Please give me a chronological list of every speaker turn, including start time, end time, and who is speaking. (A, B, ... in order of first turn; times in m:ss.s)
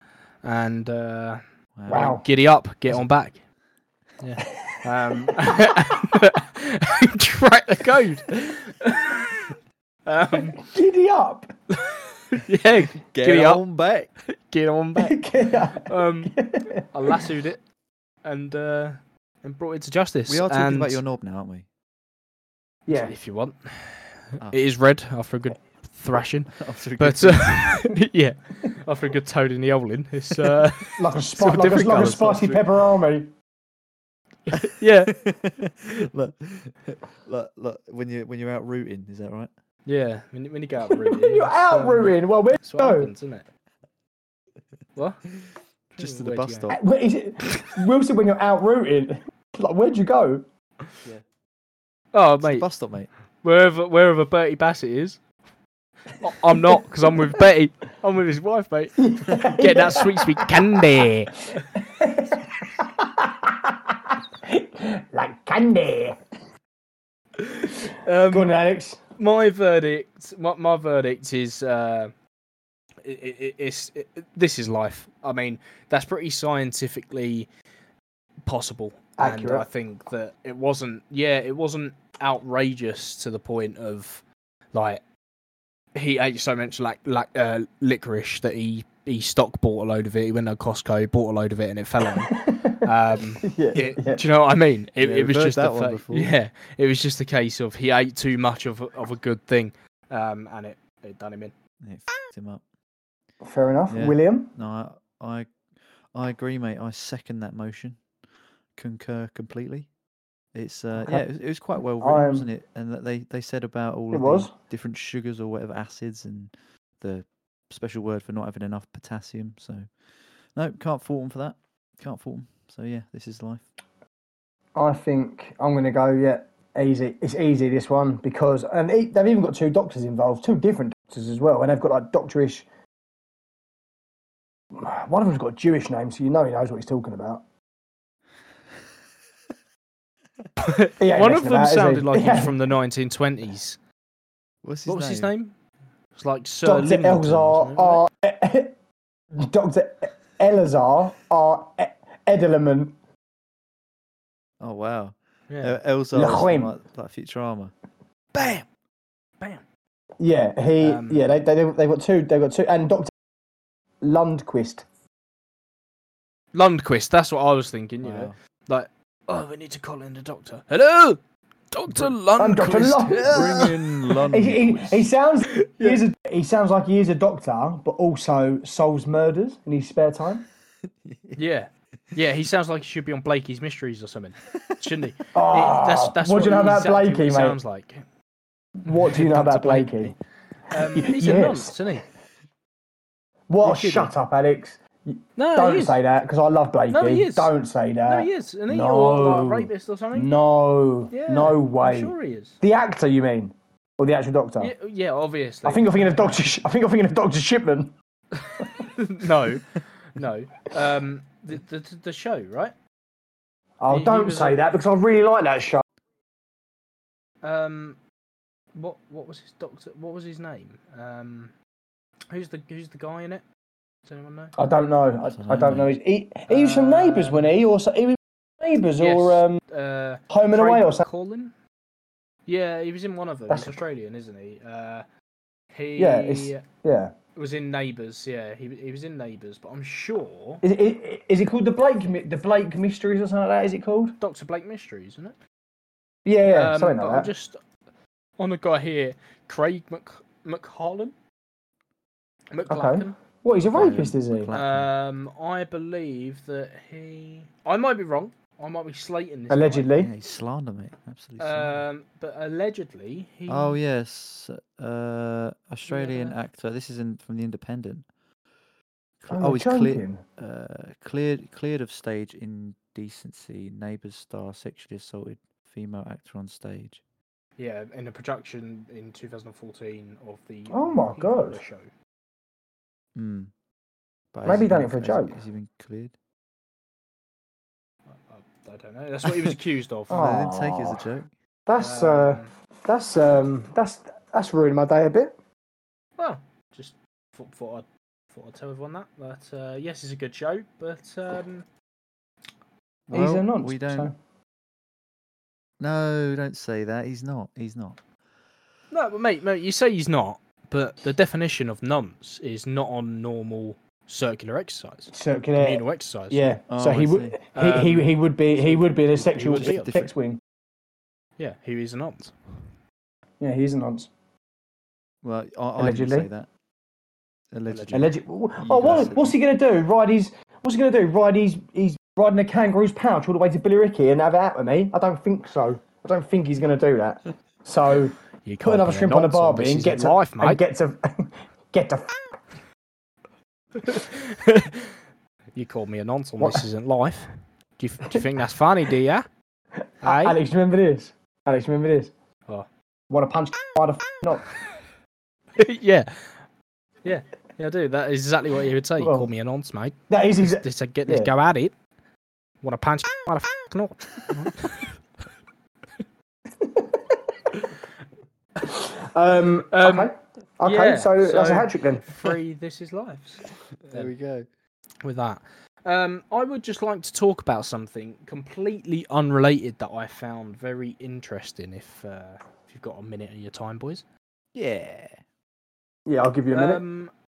0:00.4-0:03.4 A
0:01.8-0:02.2 B
0:01.9-0:02.2 C
0:04.2-0:09.5 A
0:10.0-0:10.6 A
0:10.6-0:11.5 C
0:11.8-0:13.6 A
0:13.0-0:14.1 B
0:14.2-0:16.3 A
0:15.0-0:17.2 C
0:16.9-0:17.6 A
0:18.2-0:21.0 A
0:20.3-0:21.6 B
0:22.9-0:23.1 C
0:22.9-0:32.6 A
0:26.6-0:27.7 B
0:31.0-0:33.3 C
0:34.5-0:35.2 A
0:35.1-0:39.5 B
0:39.8-0:43.4 A
0:41.0-0:43.1 C
0:45.0-0:45.2 A
0:45.9-0:46.7 A
0:46.0-0:46.8 B
0:46.7-0:50.4 C
0:52.1-0:52.7 A
0:52.4-0:53.1 B
0:53.4-0:55.2 A
0:56.2-1:01.6 A
0:59.0-1:00.7 C
1:01.8-1:06.2 C
1:07.4-1:08.5 A
1:08.3-1:09.0 C
1:09.2-1:12.1 A
1:13.0-1:17.5 A
1:18.4-1:25.0 A
1:19.2-1:19.6 C
1:25.9-1:41.5 A
1:32.2-1:32.9 C
1:33.4-1:34.2 C
1:35.0-1:36.4 B
1:41.8-1:42.6 B
1:43.4-1:44.5 C
1:43.9-1:45.5 B
1:46.1-1:48.0 B
1:48.8-1:49.9 B
1:50.5-1:59.9 B
1:52.0-1:52.5 C
1:54.1-1:54.5 C
2:00.5-2:03.6 B
2:04.8-2:12.6 C
2:14.7-2:17.4 C
2:20.6-2:23.8 A
2:21.0-2:22.6 C
2:24.6-2:25.3 B
2:24.9-2:25.5 A
2:26.2-2:28.0 A
2:26.6-2:28.7 C
2:29.4-2:32.9 C
2:34.6-2:37.7 B
2:35.5-2:35.8 A
2:36.1-2:36.7 C
2:38.3-2:38.6 A
2:40.2-2:43.1 C
2:40.8-2:41.2 A
2:44.0-2:44.8 C
2:46.5-2:51.2 A
2:48.0-2:48.3 B
2:51.7-2:53.9 A
2:52.4-2:53.7 C
2:53.1-2:55.0 B
2:54.3-3:00.4 C
2:55.6-2:56.0 A
3:00.8-3:01.4 B
3:01.4-3:08.0 A
3:05.3-3:07.6 C
3:08.8-3:10.1 C
3:08.8-3:10.1 A
3:10.7-3:12.0 A
3:10.7-3:11.8 C
3:13.5-3:24.7 C
3:13.6-3:14.1 A
3:15.4-3:16.0 A
3:16.9-3:17.5 A
3:18.1-3:20.3 A
3:21.1-3:22.6 A
3:24.6-3:26.5 A
3:25.6-3:27.9 C
3:28.4-3:32.7 A
3:33.8-3:35.8 C
3:33.9-3:34.6 A
3:37.4-3:38.0 A
3:38.7-3:41.5 A
3:42.3-3:43.4 A
3:44.0-3:44.5 A
3:44.6-3:49.6 C
3:45.3-3:45.9 B
3:46.5-3:47.5 A
3:49.0-3:51.5 A
3:50.3-3:51.1 C
3:52.4-3:55.0 A
3:53.5-3:53.8 C
3:55.7-3:56.6 A
3:56.0-3:57.1 C
3:57.4-4:00.6 A
4:00.6-4:04.2 C
4:04.2-4:05.4 A
4:06.2-4:07.3 C
4:06.4-4:07.6 A
4:08.4-4:11.1 A
4:12.5-4:13.2 A
4:12.7-4:14.5 C
4:13.7-4:14.9 B
4:14.5-4:19.9 A
4:19.5-4:20.1 C
4:20.0-4:21.8 B
4:21.4-4:23.8 A
4:23.5-4:28.0 B
4:25.9-4:26.4 A
4:29.2-4:37.0 B
4:29.3-4:30.2 C
4:37.6-4:41.9 A
4:40.7-4:41.6 C
4:43.1-4:43.5 B
4:44.3-4:46.1 B
4:44.4-4:45.3 C
4:48.1-4:50.4 A
4:50.1-4:51.0 C
4:50.1-4:51.3 B
4:51.7-4:55.3 C
4:51.8-4:52.5 A
4:56.2-5:01.6 A
5:03.1-5:04.1 B
5:03.1-5:04.1 C
5:05.8-5:08.0 B
5:08.9-5:16.5 A
5:15.1-5:20.4 C
5:16.7-5:17.4 B
5:17.5-5:20.0 A
5:19.6-5:20.1 B
5:21.4-5:22.7 A
5:23.4-5:24.1 C
5:25.2-5:26.5 B
5:25.8-5:26.3 C
5:27.5-5:29.4 B
5:27.7-5:28.1 A
5:27.9-5:42.1 C
5:38.4-5:40.6 A
5:43.8-5:44.9 A
5:45.5-5:49.2 A
5:46.4-5:46.6 C
5:50.0-5:52.1 C
5:50.0-5:50.4 A
5:53.1-5:54.5 C
5:55.6-5:56.4 A
5:57.0-6:01.7 A
5:59.0-5:59.3 C
6:00.1-6:01.3 C
6:02.6-6:05.0 A
6:08.6-6:12.3 C
6:09.7-6:10.1 A
6:10.6-6:14.1 A
6:13.8-6:14.5 B
6:15.0-6:24.0 A
6:24.5-6:25.2 B
6:26.1-6:26.8 C
6:26.5-6:27.1 A